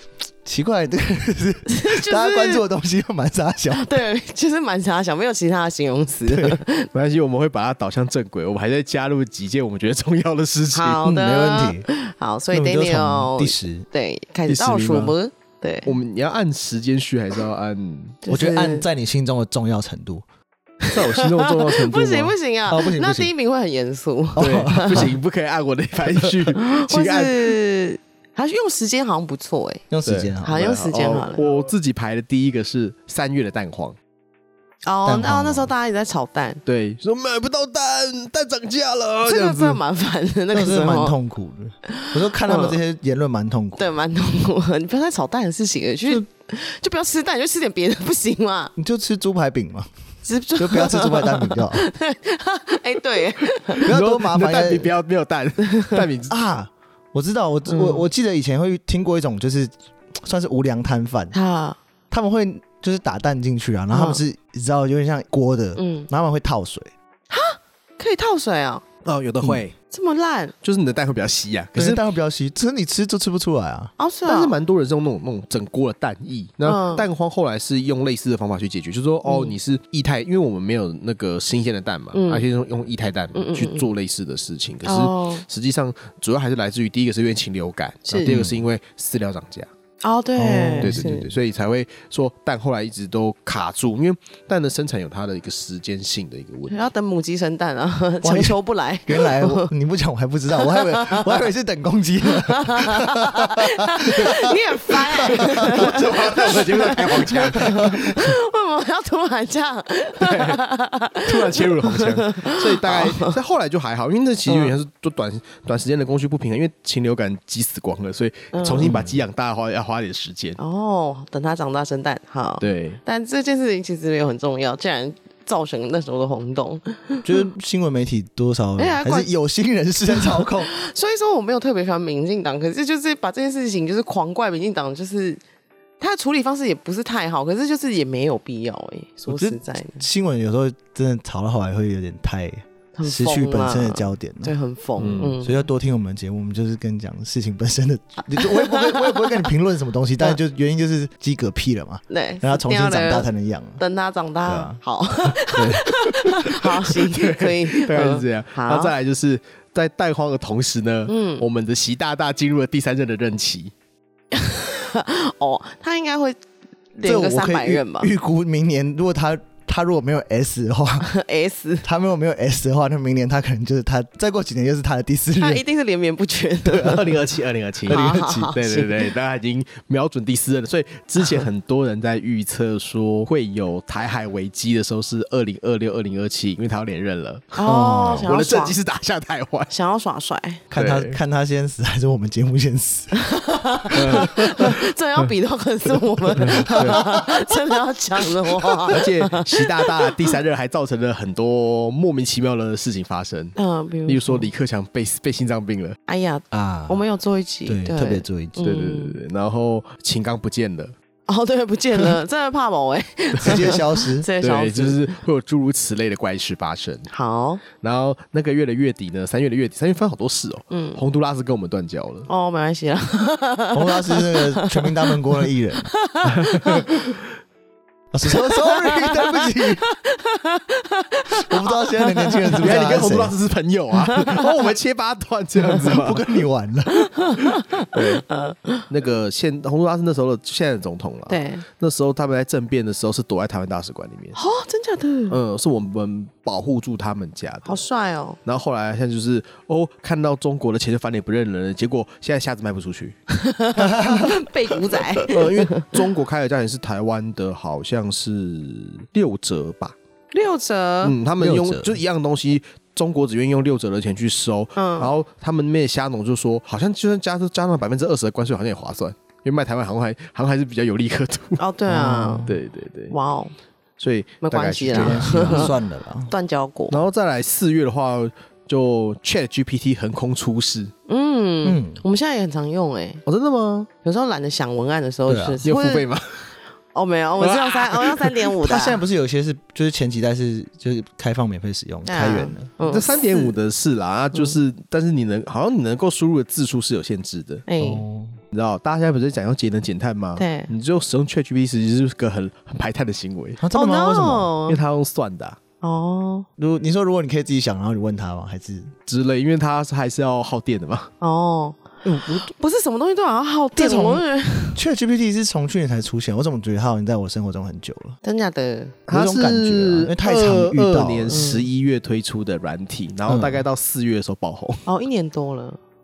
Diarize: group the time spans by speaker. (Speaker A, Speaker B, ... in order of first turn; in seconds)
Speaker A: 0.4-3.9, 11.0-11.9, 12.5-13.9, 18.3-20.2, 22.7-23.3, 24.4-25.1, 29.9-30.7, 35.0-35.7, 40.5-43.8, 48.8-49.9, 50.6-51.8, 53.9-54.9, 56.3-61.3, 62.1-66.9, 71.8-73.9, 88.2-88.6, 90.4-91.3, 98.2-106.0, 118.8-119.2, 127.2-130.7, 139.3-153.8, 154.5-154.8, 155.4-155.9, 167.0-171.1, 171.8-175.6, 176.7-177.1, 177.9-178.6, 187.7-188.3, 190.7-194.3, 196.4-197.4, 206.5-207.0, 207.7-208.6, 213.4-214.3, 223.7-225.9, 228.1-229.8, 231.4-233.3, 235.8-237.1, 253.8-254.4, 261.4-262.0, 271.9-272.6, 274.9-276.3, 281.6-282.0, 285.3-285.6, 288.6-292.7, 297.8-298.4, 303.6-304.5, 306.6-308.9, 312.0-312.5, 313.8-314.2, 314.8-318.2, 319.1-321.5, 323.3-323.7
Speaker B: 1.7-2.6, 3.7-6.9, 10.7-15.9, 18.2-18.9, 20.8-25.1, 26.5-29.9, 30.4-31.4, 34.9-36.6, 39.2-41.2, 41.9-42.8, 43.8-48.7, 50.2-53.9, 57.7-58.1, 61.3-61.8, 63.9-64.2, 65.8-66.1, 67.3-68.8, 69.9-70.5, 74.0-74.5, 76.7-77.1, 79.2-79.5, 82.1-82.4, 83.3-83.9, 84.8-85.4, 88.0-88.5, 90.0-91.3, 96.7-99.7, 100.6-101.5, 102.3-113.3, 114.5-114.7, 118.5-119.0, 120.6-127.4, 128.8-129.3, 130.1-135.4, 136.0-140.0, 142.9-145.6, 148.4-149.5, 152.1-158.9, 161.1-161.4, 164.3-166.4, 166.9-168.1, 171.0-171.9, 175.4-177.1, 177.9-179.1, 187.6-188.8, 189.7-190.6, 193.1-200.3, 203.6-204.5, 206.1-209.2, 211.3-215.0, 217.1-217.6, 220.7-221.0, 222.3-226.9, 228.3-232.8, 234.1-234.6, 236.9-238.9, 241.3-241.7, 244.3-245.4, 247.7-248.4, 253.3-256.0, 260.3-261.2, 264.8-265.1, 271.6-272.5, 273.1-273.5, 274.4-275.7, 276.3-277.0, 281.1-283.2, 284.0-286.1, 286.9-289.0, 292.1-293.5, 297.7-298.0, 300.4-300.7, 303.7-304.8, 305.8-306.5, 311.2-314.8, 318.2-319.0, 321.3-321.7, 324.9-325.8
Speaker C: 6.9-11.0, 14.5-15.2, 15.9-18.2, 20.9-22.4, 24.4-27.6, 30.1-34.0, 36.7-39.8, 53.7-56.4, 69.0-69.8, 70.6-72.0, 74.2-89.7, 90.8-96.9, 105.3-108.0, 110.2-110.6, 111.2-120.6, 122.6-123.0, 145.0-145.4, 156.4-163.7, 176.7-189.7, 190.7-191.2, 193.9-194.8, 196.4-197.2, 198.9-206.0, 208.6-210.9, 214.4-217.1, 217.8-222.3, 226.2-227.2, 232.6-236.2, 237.9-238.2, 238.9-244.4, 245.3-247.8, 248.4-253.2, 254.9-259.9, 261.0-271.6, 272.4-273.2, 274.0-275.7, 276.9-280.9, 283.3-283.9, 285.6-286.6, 287.4-288.5, 292.8-297.6, 298.5-303.6, 304.7-305.6, 309.1-311.1, 319.1-324.9